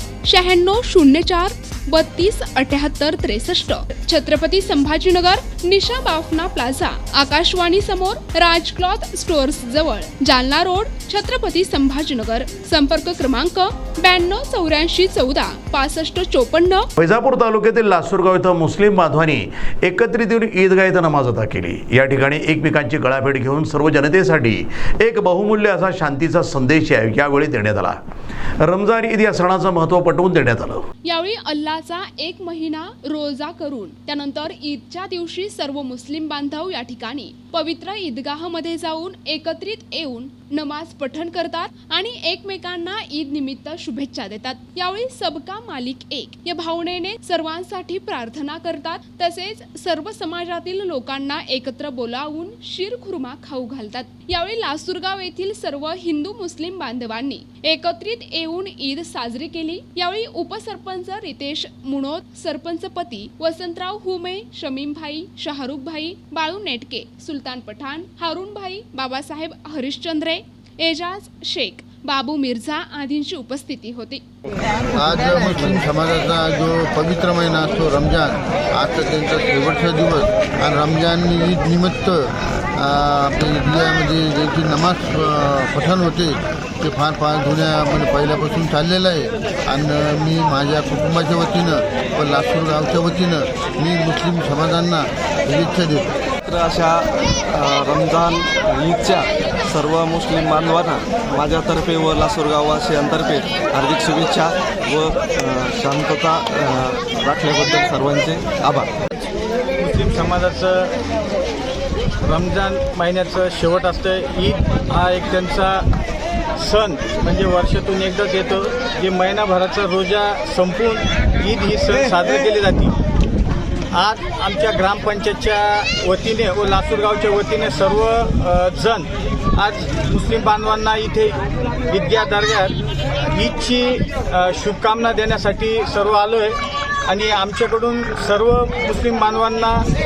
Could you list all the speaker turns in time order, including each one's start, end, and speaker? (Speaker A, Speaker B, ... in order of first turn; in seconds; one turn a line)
Speaker A: 0.2-16.9
Speaker B: 17.0-28.0
Speaker B: 28.6-30.8
Speaker A: 31.1-74.2
Speaker C: 75.0-96.2
Speaker D: 96.5-108.9
Speaker E: 109.8-110.9
Speaker E: 112.2-115.8
Speaker E: 116.6-123.0
Speaker E: 124.0-139.9